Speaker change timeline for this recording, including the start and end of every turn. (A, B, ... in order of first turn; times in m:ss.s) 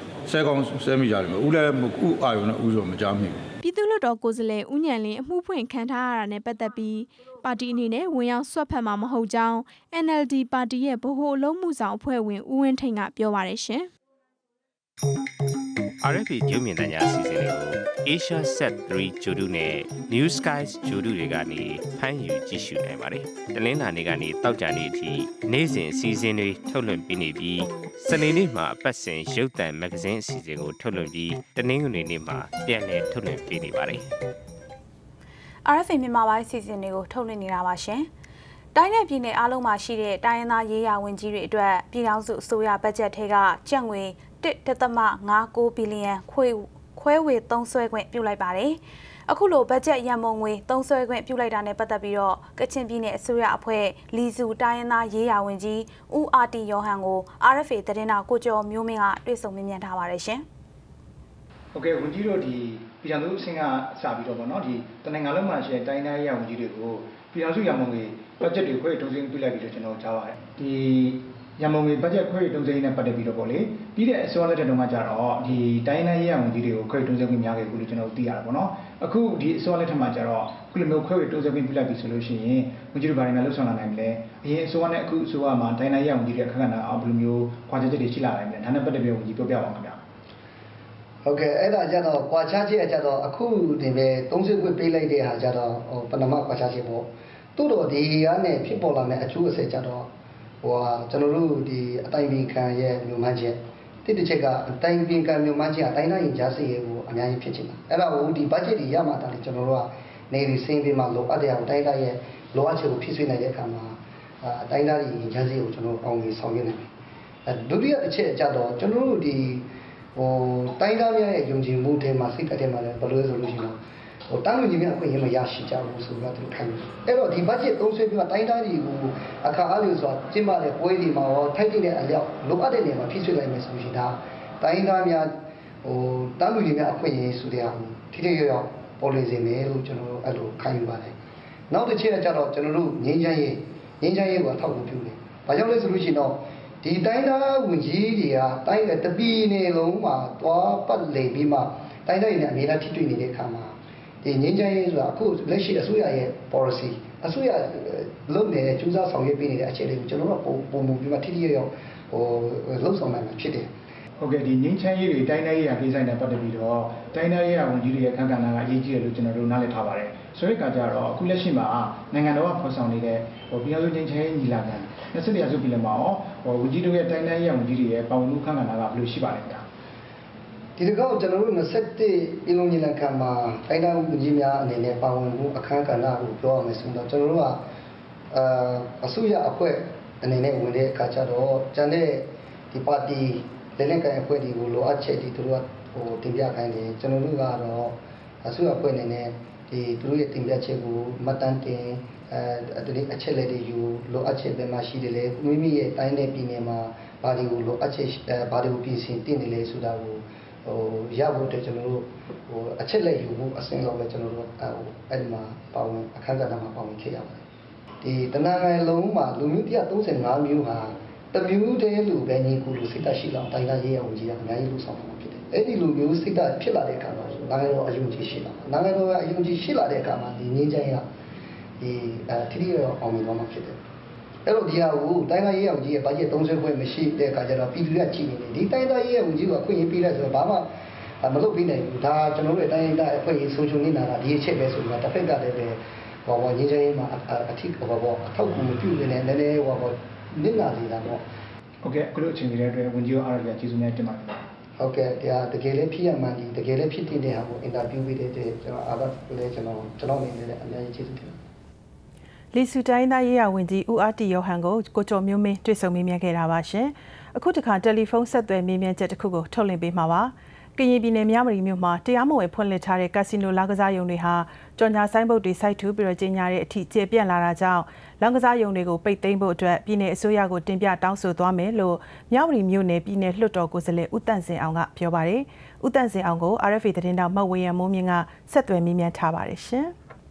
0:00.2-0:03.5 A
0:03.6-0:13.9 B
0:16.0-0:34.0 C
0:35.6-0:38.1 D
0:38.7-1:00.4 D
1:01.7-1:30.0 E
1:31.2-1:40.1 F
1:40.6-1:56.9 F
1:57.5-2:03.8 F
2:04.3-2:21.1 F
2:21.7-2:43.7 F
2:44.2-2:59.6 E
3:00.8-3:07.6 F
3:08.3-3:37.4 F
3:38.0-3:51.0 F
3:51.8-3:53.8 F
3:54.4-4:00.7 F
4:01.2-4:11.2 F
4:11.8-4:14.5 E
4:14.8-4:21.4 F
4:22.5-4:49.9 G